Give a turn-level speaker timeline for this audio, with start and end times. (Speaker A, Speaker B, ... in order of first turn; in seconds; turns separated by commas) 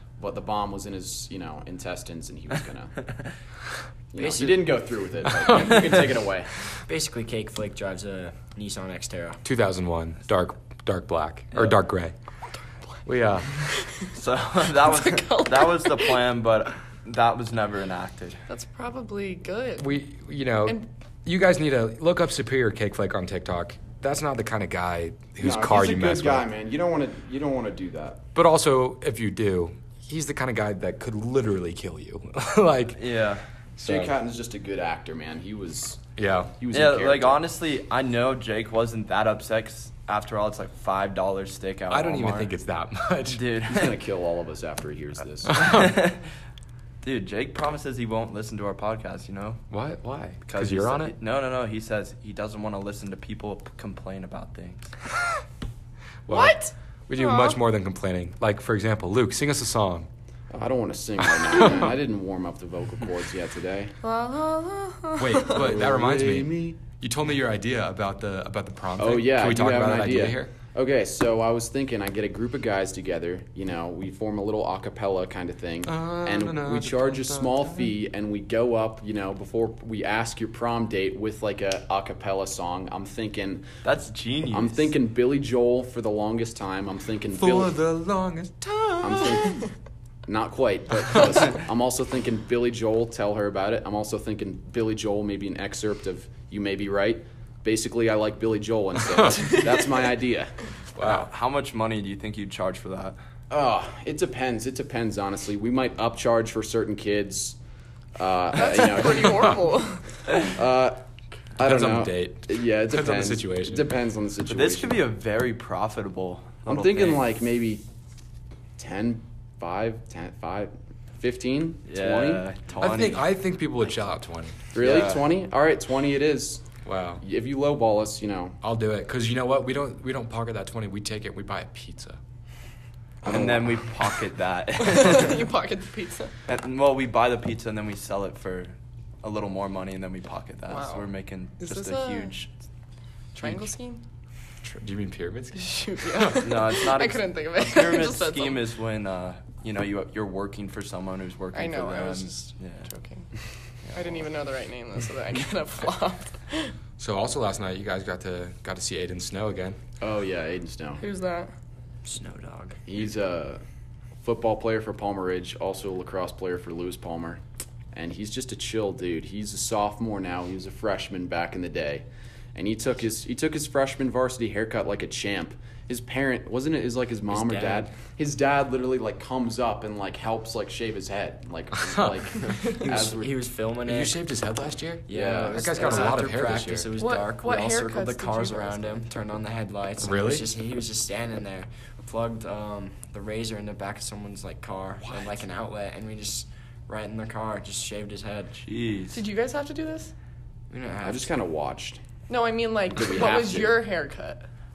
Speaker A: 0.2-3.1, Speaker A: 4.1-6.5, Speaker B: 4.2-4.8, Speaker B: 6.9-9.4, Speaker C: 9.4-12.1, Speaker C: 13.0-13.6, Speaker D: 14.1-18.4, Speaker E: 14.8-16.1, Speaker E: 18.5-19.9, Speaker C: 19.8-26.5, Speaker A: 25.4-28.2, Speaker C: 28.3-33.0, Speaker D: 33.0-33.4, Speaker C: 33.8-34.1, Speaker A: 33.8-36.0, Speaker C: 36.2-36.5, Speaker A: 36.6-37.4, Speaker D: 36.7-42.5, Speaker C: 41.9-43.4, Speaker D: 43.2-44.0, Speaker A: 43.7-45.8, Speaker D: 45.5-46.2, Speaker D: 47.0-49.6, Speaker C: 49.7-51.1, Speaker D: 50.5-54.9, Speaker C: 56.3-56.6, Speaker E: 56.3-57.6, Speaker C: 57.1-60.1, Speaker A: 60.5-64.0, Speaker E: 64.0-65.6, Speaker C: 65.2-70.5, Speaker A: 65.5-66.8, Speaker A: 69.0-83.6, Speaker C: 75.8-77.9, Speaker D: 83.8-84.9, Speaker A: 84.5-87.7, Speaker C: 87.3-89.6, Speaker A: 89.0-89.6, Speaker A: 90.2-100.5, Speaker C: 101.0-101.3, Speaker D: 101.0-103.2, Speaker A: 103.5-107.6, Speaker A: 108.2-109.6, Speaker E: 108.6-110.0, Speaker A: 110.3-111.0, Speaker A: 111.6-115.0, Speaker C: 111.6-113.9, Speaker D: 114.5-117.3, Speaker A: 116.7-117.8, Speaker A: 118.8-122.4, Speaker D: 121.9-123.3, Speaker C: 122.8-124.6, Speaker A: 124.7-126.6, Speaker D: 124.8-125.3, Speaker C: 126.8-127.2, Speaker A: 127.2-128.6, Speaker C: 128.6-132.2, Speaker A: 133.2-133.6, Speaker D: 133.2-135.4, Speaker E: 134.8-136.3, Speaker D: 136.5-142.5, Speaker E: 140.7-141.1, Speaker E: 141.6-142.3, Speaker E: 143.3-144.0, Speaker C: 144.6-146.3, Speaker E: 145.6-148.6, Speaker D: 146.3-152.9, Speaker E: 151.5-153.2, Speaker D: 153.8-154.2, Speaker E: 153.9-156.7, Speaker C: 157.0-159.8, Speaker A: 160.0-161.0, Speaker E: 161.0-161.5, Speaker B: 162.0-162.8, Speaker A: 162.9-163.6, Speaker A: 164.2-167.4, Speaker A: 167.9-183.3, Speaker B: 177.3-177.9, Speaker B: 182.4-184.2, Speaker C: 183.8-186.9, Speaker B: 185.1-198.6, Speaker A: 185.1-186.2, Speaker E: 186.9-188.9, Speaker C: 190.0-190.5, Speaker D: 198.6-199.2, Speaker E: 199.1-200.1, Speaker B: 200.7-201.3, Speaker A: 201.0-202.0, Speaker E: 202.3-204.4, Speaker A: 202.9-203.8